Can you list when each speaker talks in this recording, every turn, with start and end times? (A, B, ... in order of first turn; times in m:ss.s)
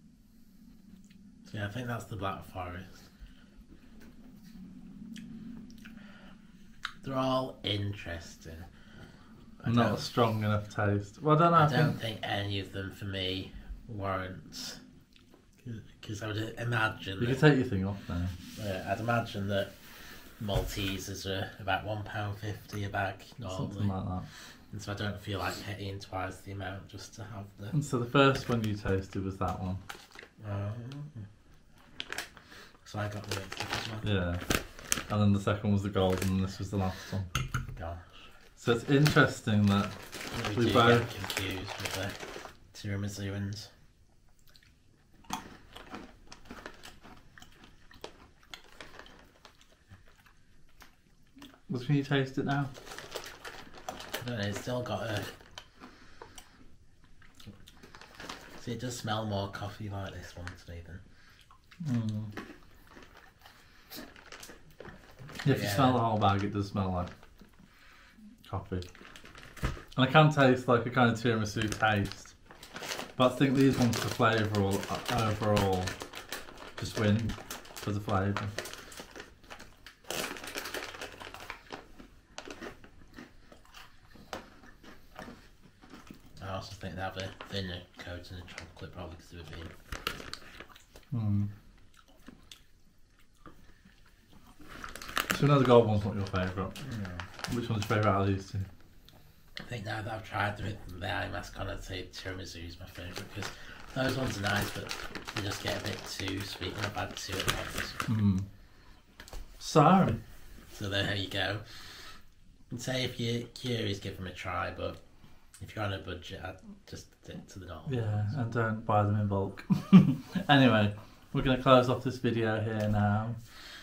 0:01.4-0:03.0 A
0:07.0-0:08.7 A
0:09.6-0:10.0 A
0:09.6-0:12.0 B
0:11.6-0:14.8 A
0:15.6-0:17.4 A
0:17.2-0:18.4 B
0:18.6-0:19.7 A
0:20.4-0:23.9 A
0:23.5-0:24.3 B
0:24.7-0:27.8 A
0:27.7-0:29.8 B
0:30.4-0:31.2 A
0:32.8-0:34.1 A
0:34.0-0:34.4 B
0:35.1-0:37.3 B
0:37.8-0:38.3 A
0:38.6-0:40.0 B
0:40.3-0:42.2 A
0:40.5-0:41.1 B
0:42.7-0:43.7 A
0:51.7-0:52.7 B
0:54.2-0:55.3 A
0:58.6-1:01.0 A
1:01.8-1:02.3 B
1:05.4-1:07.1 B
1:05.4-1:06.0 A
1:08.4-1:08.8 B
1:09.9-1:12.3 B
1:13.2-1:15.9 B
1:16.8-1:18.5 B
1:26.4-1:29.7 A
1:31.1-1:31.5 B
1:35.3-1:36.7 B
1:36.8-1:37.2 A
1:37.5-1:38.7 B
1:39.6-1:48.0 A
1:48.1-1:48.5 B
1:49.6-1:50.2 B
1:50.7-1:52.0 A
1:52.7-1:55.0 A
1:55.6-1:58.4 A
1:57.8-2:03.4 B